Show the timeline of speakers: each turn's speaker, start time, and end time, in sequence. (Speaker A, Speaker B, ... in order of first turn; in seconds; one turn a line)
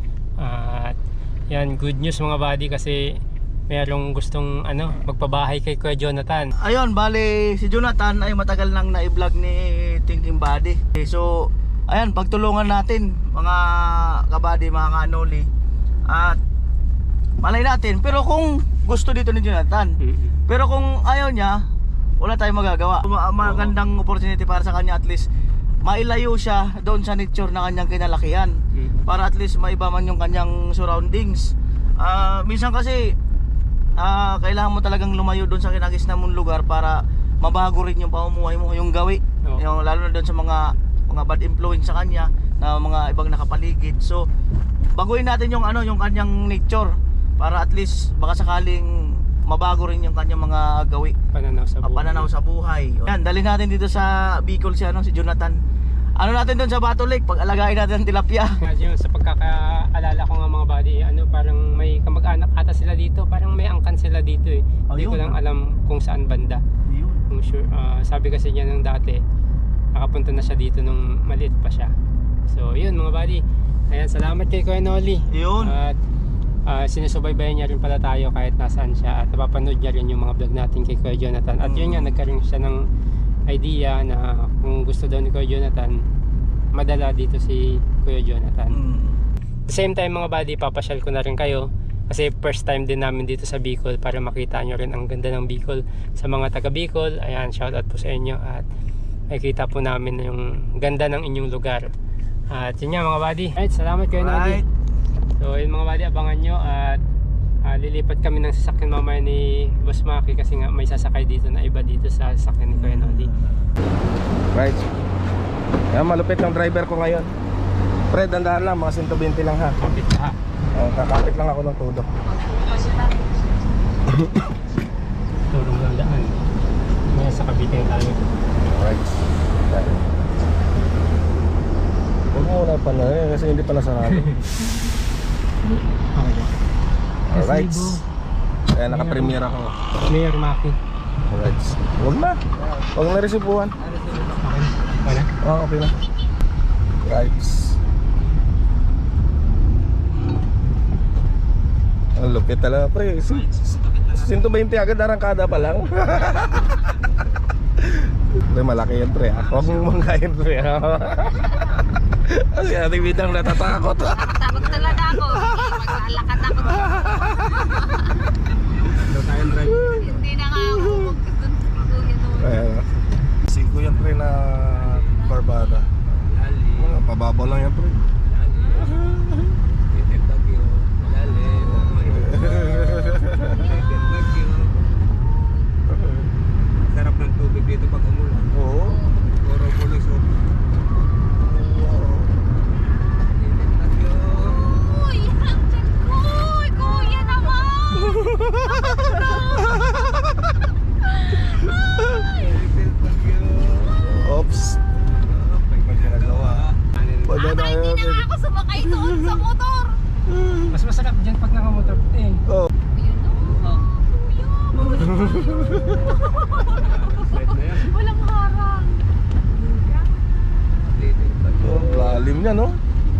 Speaker A: 0.4-1.0
Speaker A: 1.5-3.2
Speaker A: 3.7-6.5
Speaker B: 6.6-15.5
Speaker B: 16.1-16.4
Speaker B: 17.4-19.9
Speaker A: 20.0-20.4
Speaker B: 20.5-21.6
Speaker B: 22.2-25.3
Speaker A: 23.4-23.7
Speaker B: 25.9-28.5
Speaker A: 28.8-29.0
Speaker B: 29.1-33.2
Speaker B: 34.0-44.2
Speaker B: 45.0-51.1
Speaker A: 51.3-52.3
Speaker B: 51.8-55.6
Speaker B: 56.2-58.5
Speaker A: 58.6-66.6
Speaker B: 64.9-65.4
Speaker B: 66.9-67.2
Speaker A: 67.3-69.2
Speaker A: 70.0-71.9
Speaker A: 72.5-76.0
Speaker B: 75.3-75.8
Speaker A: 76.7-82.8
Speaker B: 81.6-82.2
Speaker A: 83.5-86.0
Speaker A: 86.8-88.8
Speaker B: 88.7-89.2
Speaker A: 89.7-98.7
Speaker A: 99.3-101.9
Speaker A: 102.5-104.6
Speaker B: 104.1-104.7
Speaker A: 105.4-107.0
Speaker A: 107.7-113.3
Speaker B: 112.7-113.5
Speaker C: 114.5-114.9
Speaker C: 115.9-117.3
Speaker C: 118.1-119.8
Speaker A: 119.8-120.4
Speaker C: 120.7-122.1
Speaker A: 125.5-126.3
Speaker A: 127.1-128.4
Speaker C: 128.6-129.1
Speaker C: 129.7-130.0
Speaker C: 132.3-134.3
Speaker A: 134.1-134.4
Speaker A: 135.7-136.5
Speaker C: 137.3-138.0
Speaker A: 137.3-138.0
Speaker C: 138.7-139.8
Speaker A: 138.9-139.4
Speaker A: 140.1-140.8
Speaker C: 141.3-143.7
Speaker A: 144.4-145.3
Speaker C: 145.4-145.9
Speaker C: 147.0-147.8
Speaker C: 152.2-156.8
Speaker C: 157.8-161.7
Speaker C: 162.2-164.5
Speaker D: 164.2-167.3
Speaker E: 164.5-165.2
Speaker C: 165.1-167.7
Speaker E: 166.2-166.9
Speaker E: 168.8-170.3
Speaker C: 169.7-171.1
Speaker D: 170.0-172.7
Speaker C: 172.3-176.1
Speaker E: 174.7-175.3
Speaker E: 176.2-177.0
Speaker C: 176.8-178.0
Speaker E: 178.3-179.1
Speaker C: 178.9-179.5
Speaker E: 179.9-185.0
Speaker C: 181.7-183.8
Speaker C: 185.9-186.3
Speaker E: 186.9-188.6
Speaker C: 188.5-189.0
Speaker E: 189.2-190.3
Speaker C: 191.4-192.3
Speaker E: 193.3-195.0
Speaker D: 194.8-198.3
Speaker E: 197.4-197.8
Speaker C: 198.1-198.8
Speaker C: 199.4-199.8
Speaker E: 202.2-204.3
Speaker C: 204.0-204.8
Speaker E: 204.9-206.8
Speaker C: 205.8-206.7
Speaker C: 207.2-209.4
Speaker D: 207.3-210.0
Speaker C: 210.3-210.7
Speaker A: 210.7-212.4
Speaker D: 213.0-219.1
Speaker C: 214.9-216.2
Speaker E: 216.6-217.9
Speaker E: 220.8-222.3
Speaker C: 221.6-222.8